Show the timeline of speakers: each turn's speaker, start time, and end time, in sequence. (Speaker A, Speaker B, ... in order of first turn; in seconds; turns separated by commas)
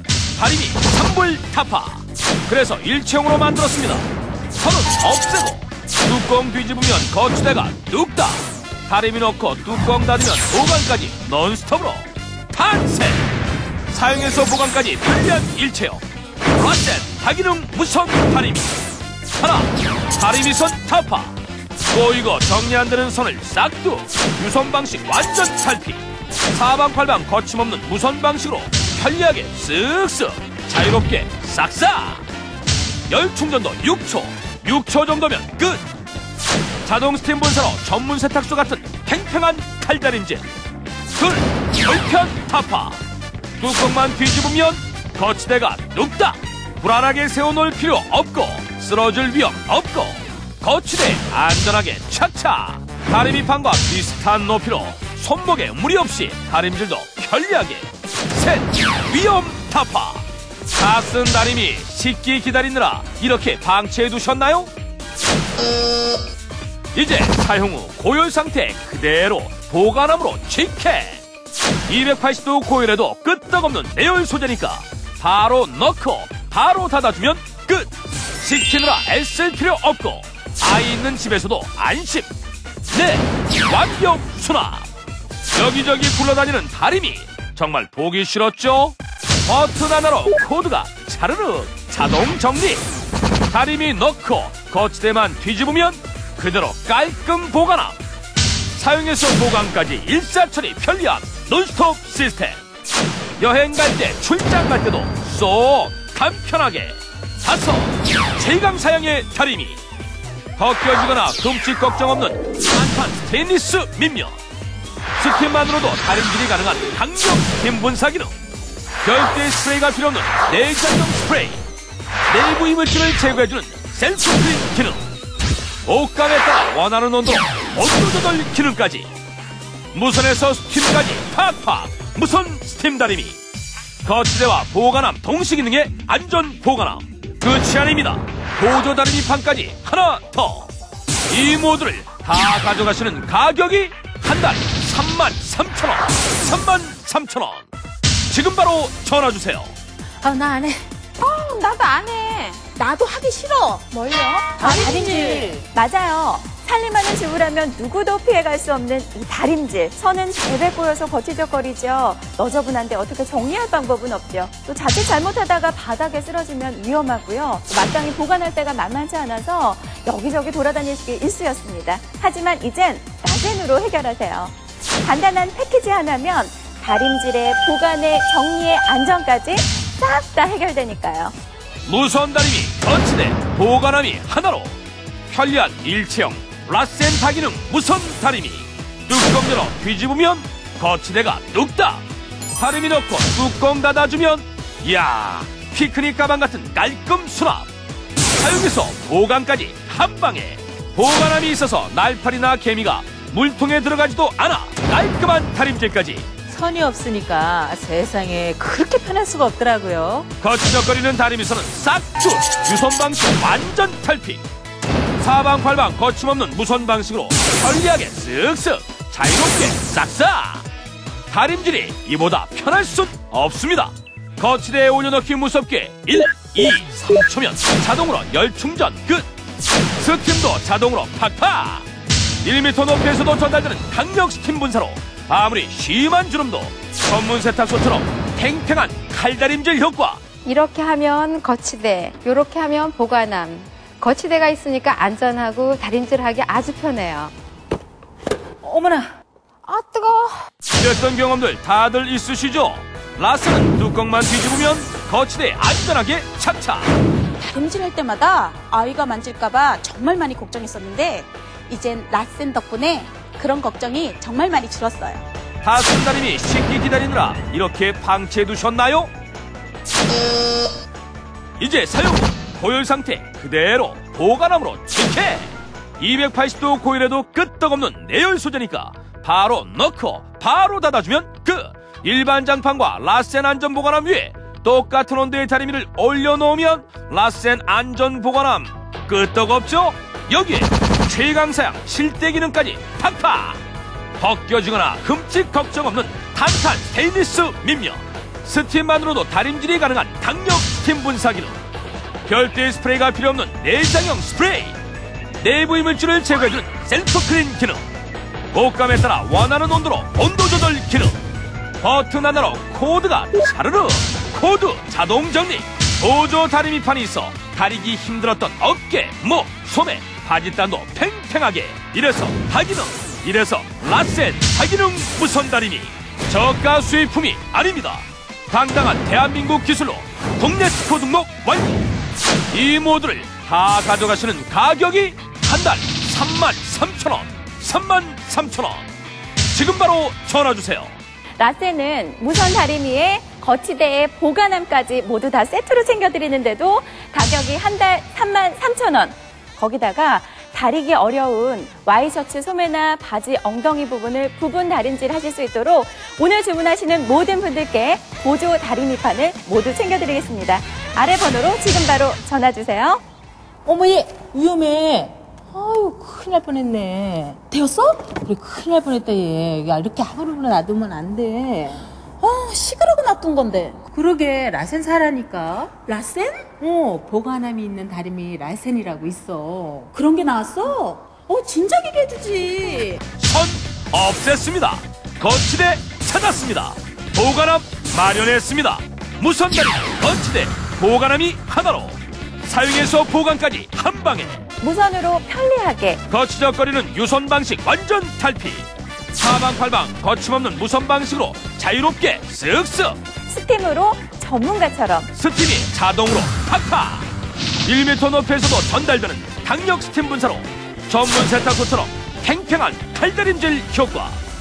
Speaker A: 0.4-4.1, Speaker A: 4.6-13.3, Speaker A: 13.9-16.0, Speaker A: 16.6-18.8, Speaker A: 19.4-21.4, Speaker A: 21.9-32.2, Speaker A: 33.1-35.8, Speaker A: 36.8-40.5, Speaker A: 41.1-43.0, Speaker A: 43.6-64.7, Speaker A: 66.9-71.2, Speaker A: 71.9-82.3, Speaker A: 82.9-84.9, Speaker A: 85.5-92.8, Speaker A: 93.5-98.0, Speaker A: 98.7-102.6, Speaker A: 103.4-109.8, Speaker A: 110.6-114.4, Speaker A: 115.2-118.3, Speaker A: 119.0-121.6, Speaker A: 122.3-125.0, Speaker A: 125.8-129.1, Speaker A: 129.9-133.4, Speaker A: 134.0-140.7, Speaker A: 141.3-147.7, Speaker A: 148.3-149.7, Speaker B: 150.2-150.8, Speaker C: 151.3-151.8, Speaker C: 152.4-153.9, Speaker D: 153.9-155.0, Speaker C: 154.6-155.5, Speaker B: 154.6-155.6, Speaker D: 155.7-181.3, Speaker A: 181.8-184.7, Speaker A: 185.3-192.0, Speaker A: 192.6-197.7, Speaker A: 198.4-206.3, Speaker B: 206.5-210.3, Speaker A: 210.4-214.4, Speaker A: 215.2-220.7, Speaker A: 221.3-229.3, Speaker A: 230.0-231.8, Speaker A: 232.4-240.2, Speaker E: 240.4-247.3, Speaker B: 248.6-249.1, Speaker E: 249.7-250.3, Speaker A: 250.7-256.9, Speaker C: 257.4-265.2, Speaker A: 265.6-269.1, Speaker A: 271.6-293.6, Speaker A: 294.2-301.6, Speaker A: 302.3-304.8, Speaker A: 305.4-307.8, Speaker A: 308.5-311.2, Speaker A: 311.8-331.9, Speaker A: 332.5-338.9, Speaker A: 339.5-340.9, Speaker D: 341.4-363.0, Speaker B: 363.6-375.9, Speaker C: 372.3-373.8, Speaker C: 375.9-376.5, Speaker B: 376.4-379.9, Speaker C: 379.9-383.0, Speaker A: 383.2-394.4, Speaker D: 394.6-396.0, Speaker A: 396.1-403.0, Speaker D: 403.3-405.1, Speaker A: 405.1-407.1, Speaker A: 407.6-414.2